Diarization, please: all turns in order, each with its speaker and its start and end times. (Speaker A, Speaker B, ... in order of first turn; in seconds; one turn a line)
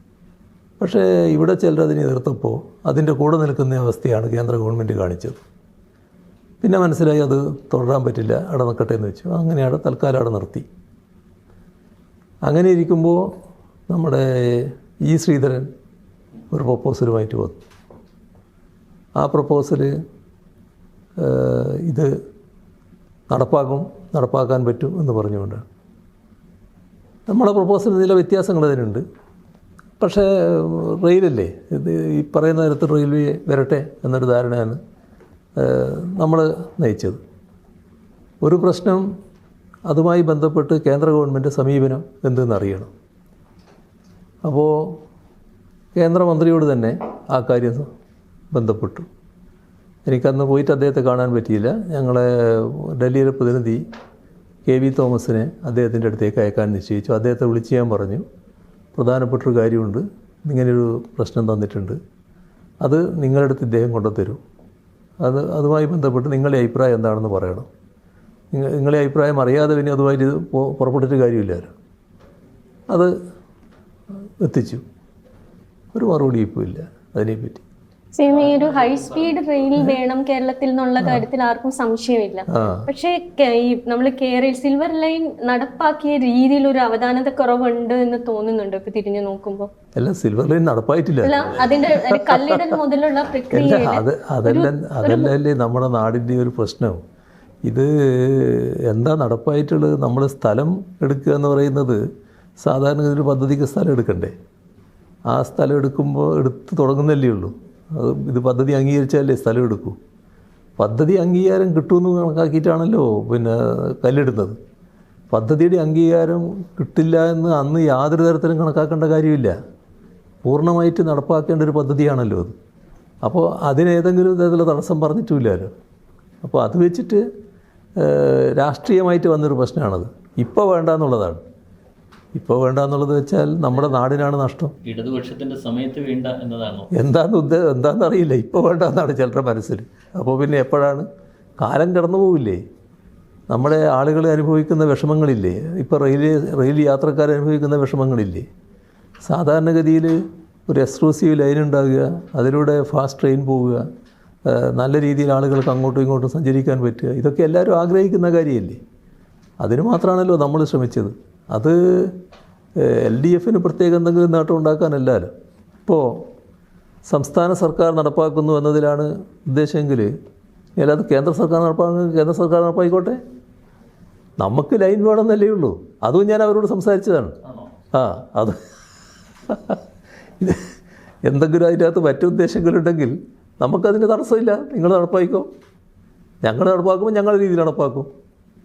Speaker A: 0.8-5.4
Speaker A: 6.6-10.7
Speaker A: 12.4-13.2
Speaker A: 13.9-15.7
Speaker A: 16.5-17.6
Speaker A: 19.2-19.9
Speaker A: 21.2-22.1
Speaker A: 23.3-25.7
Speaker A: 27.3-29.0
Speaker A: 30.0-34.8
Speaker A: 35.6-37.2
Speaker A: 38.4-39.0
Speaker A: 39.9-42.9
Speaker A: 44.4-45.0
Speaker A: 46.0-47.9
Speaker A: 48.5-49.1
Speaker A: 50.1-53.8
Speaker A: 54.7-58.2
Speaker A: 59.0-62.0
Speaker A: 62.8-64.4
Speaker A: 65.2-67.7
Speaker A: 68.5-71.7
Speaker A: 74.4-74.8
Speaker A: 75.9-77.6
Speaker B: 78.2-89.7
Speaker C: 78.4-79.3
Speaker A: 82.5-82.9
Speaker A: 90.0-91.6
Speaker B: 91.2-95.3
Speaker A: 93.5-97.0
Speaker A: 97.7-102.0
Speaker A: 102.6-104.3
Speaker A: 105.3-110.0
Speaker A: 110.8-114.6
Speaker A: 115.3-119.6
Speaker A: 120.5-122.5
Speaker A: 123.2-125.7
Speaker A: 126.4-127.2
Speaker A: 128.0-131.4
Speaker A: 132.3-134.8
Speaker C: 134.8-136.9
Speaker A: 136.9-141.1
Speaker A: 141.6-142.6
Speaker A: 143.5-148.5
Speaker A: 149.2-153.8
Speaker A: 154.5-158.8
Speaker A: 159.6-162.2
Speaker A: 162.8-165.3
Speaker A: 165.9-166.2
Speaker A: 167.1-170.1
Speaker A: 170.8-173.2
Speaker A: 174.4-177.4
Speaker C: 177.4-177.7
Speaker A: 177.9-178.6
Speaker A: 179.5-179.8
Speaker A: 180.4-180.7
Speaker A: 181.2-185.5
Speaker A: 186.4-188.1